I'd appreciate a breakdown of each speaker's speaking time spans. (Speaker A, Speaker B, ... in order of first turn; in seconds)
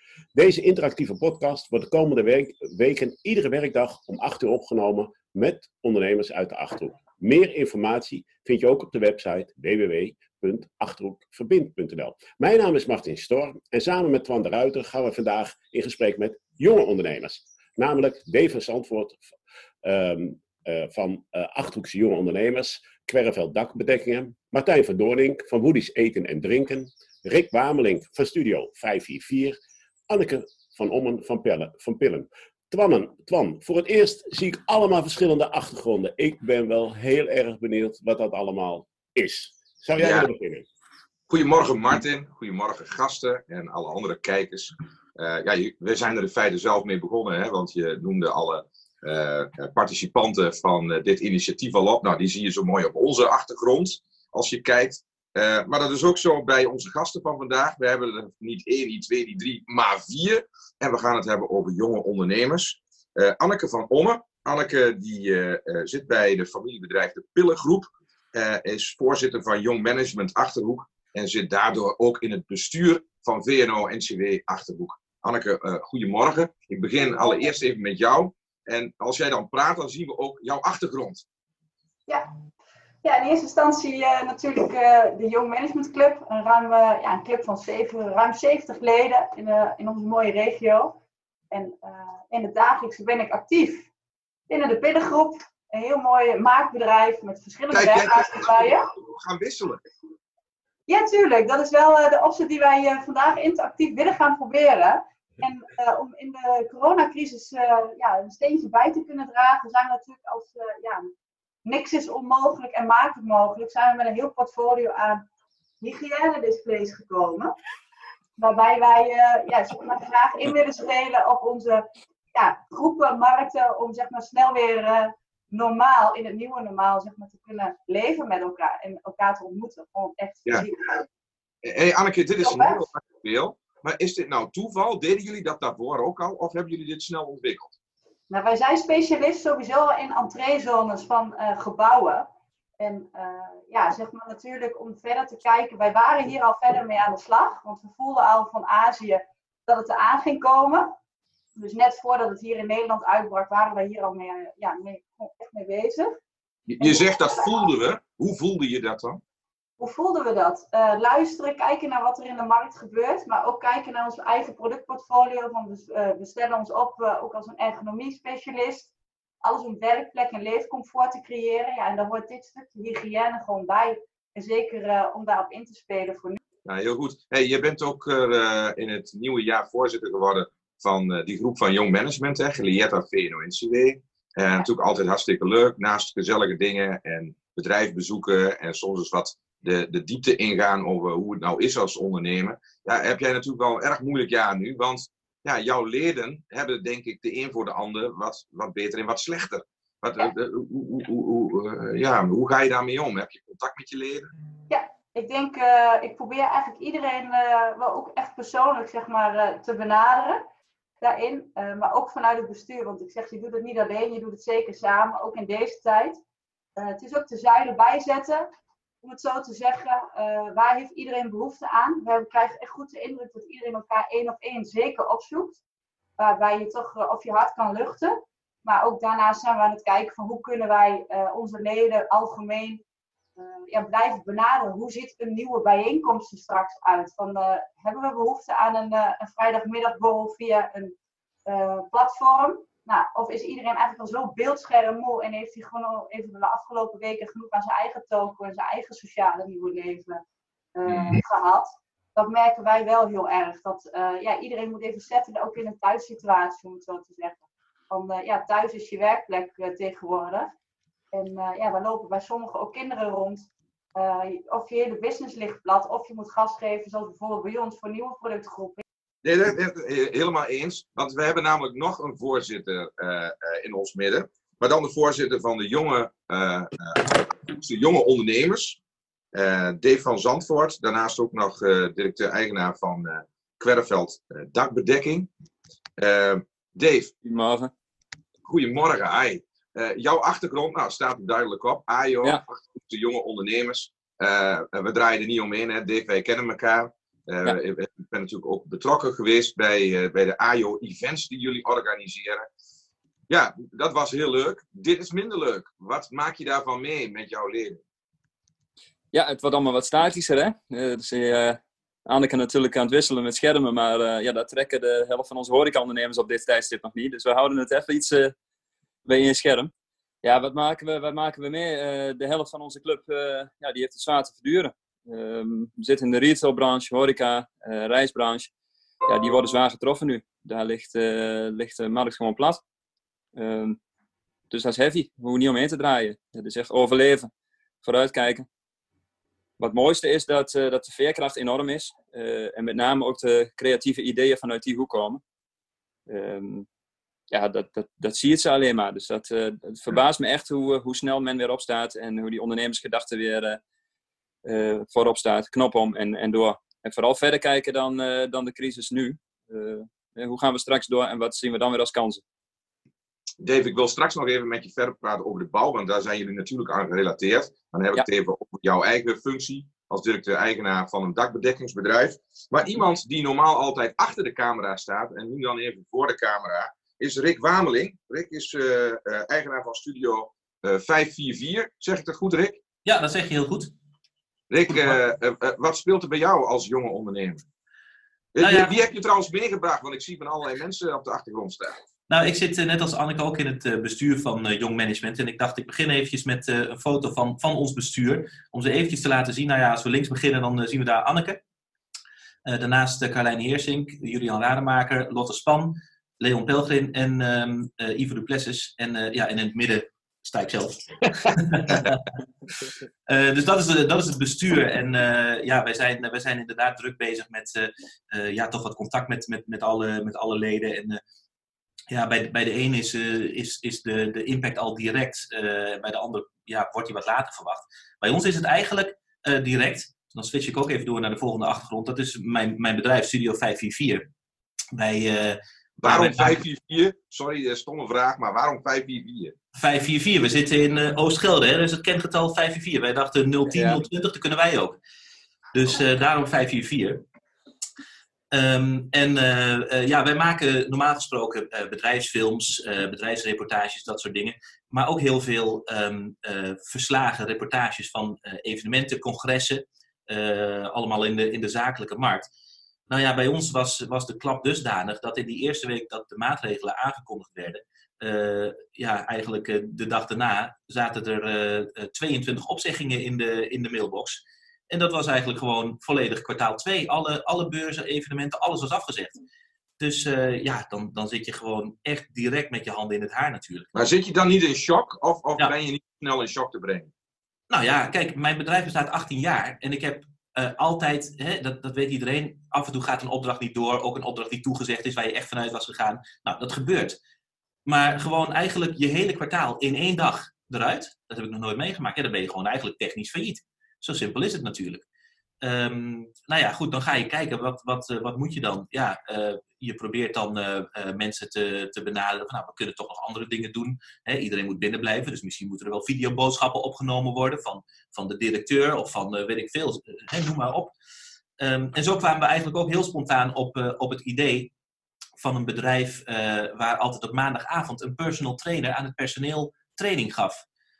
Speaker A: 0.3-19.2, 19.8-29.6, 30.1-40.6
Speaker B: 40.0-40.2, 41.3-81.2, 97.7-99.8, 131.6-137.7, 156.7-159.2, 176.6-204.3, 250.9-251.2, 269.2-278.8, 279.3-285.3, 286.0-287.1, 288.4-302.5, 303.3-307.8, 363.4-382.6, 384.5-387.4, 388.3-391.8, 435.8-439.3, 483.7-486.9
Speaker C: 83.0-91.0, 91.5-93.9, 94.5-98.9, 100.9-111.1, 111.6-115.2, 115.8-117.5, 118.4-131.0, 132.4-132.9, 138.3-142.3, 142.8-150.9, 151.6-156.2, 156.8-157.3, 159.8-168.9, 169.4-176.4, 204.7-210.4, 211.0-216.2, 216.8-218.5, 219.0-225.6, 226.2-232.8, 233.4-240.9, 241.5-250.2, 250.8-260.5, 261.1-268.8
Speaker D: 287.2-287.7, 309.1-318.3, 319.0-319.7, 320.2-328.5, 329.1-332.6, 333.4-333.8, 334.5-337.3, 337.8-338.4, 339.6-345.2, 346.1-346.7, 347.3-353.6, 354.4-362.2, 443.4-443.8
Speaker E: 382.8-383.7, 388.4-388.7, 392.1-401.4, 402.4-412.1, 413.1-421.0, 421.9-434.1, 434.7-436.4, 439.6-444.8, 445.5-447.0, 448.3-462.3, 462.9-479.2, 479.8-483.7, 487.5-497.0, 497.6-504.8, 505.4-520.7, 521.4-524.5, 525.2-530.4